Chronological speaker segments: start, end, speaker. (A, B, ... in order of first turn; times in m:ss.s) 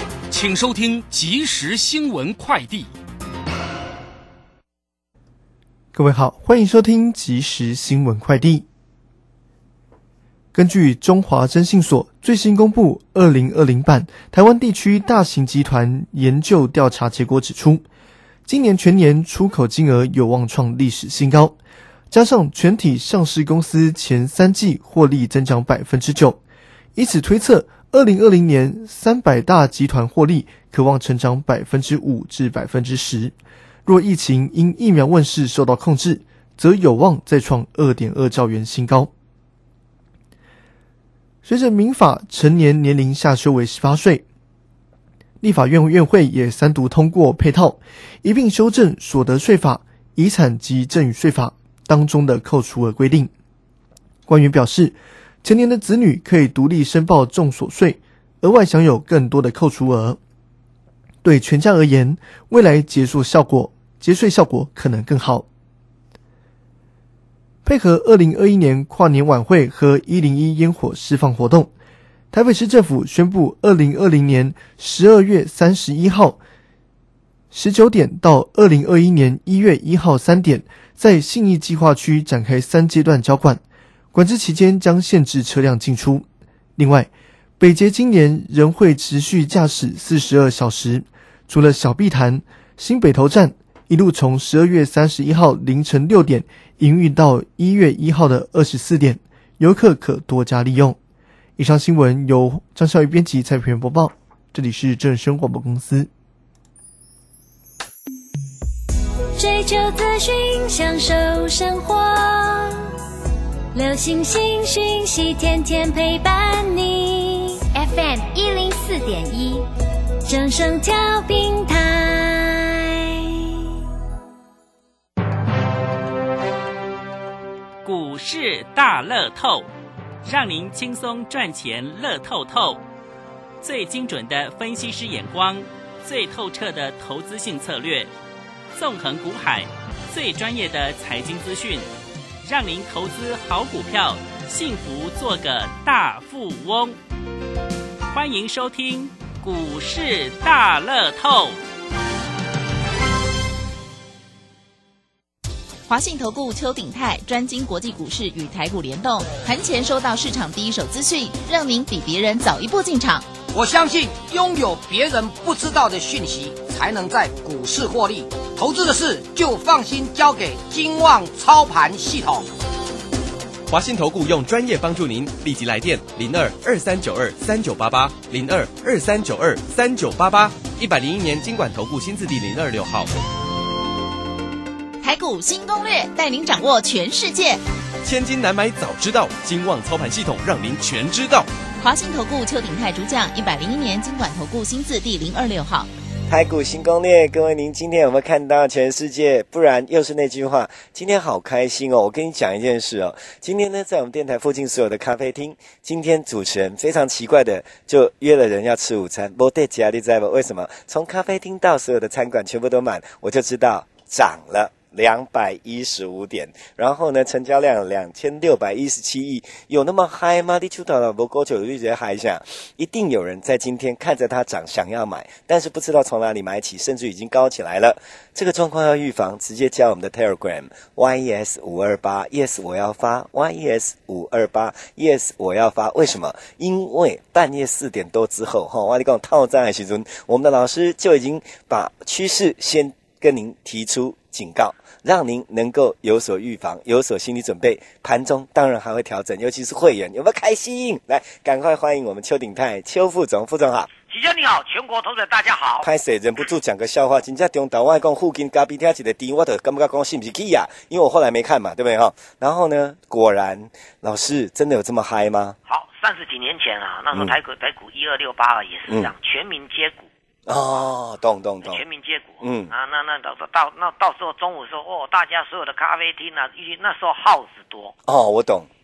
0:00.3-0:02.9 A
0:05.9-0:08.6 B
0:10.5-0:17.8 B
0:18.4-0:21.6 B
0:22.1-0:26.4 B
0:27.0-0:33.3 B
0:33.8-0:39.1 B
0:41.4-0:44.2 B
0:45.4-0:53.3 B
0:54.3-1:00.2 B
1:01.2-1:05.5 B
1:07.6-1:11.7 B
1:12.3-1:16.4 B
1:17.5-1:23.6 B
1:24.1-1:26.2 B
1:26.8-1:41.0 B
1:41.6-1:46.1 B
1:49.4-1:52.9 C
1:53.7-1:59.7 C
2:00.2-2:03.7 C
2:07.8-2:09.7 D
2:10.2-2:12.8 D
2:13.6-2:18.1 D
2:18.7-2:21.9 D
2:22.4-2:27.0 D
2:28.1-2:31.6 D
2:35.9-2:43.3 E
2:43.5-2:52.5 F
2:53.7-3:03.1 G
3:05.0-3:07.6 E
3:08.0-3:11.5 G
3:11.8-3:15.9 E
3:16.3-4:13.9 H
4:14.1-4:15.9 I
4:15.8-4:25.6 H
4:25.7-4:30.1 I
4:30.4-4:31.8 H
4:31.6-4:38.0 I
4:32.4-4:32.7 H
4:38.1-4:38.7 H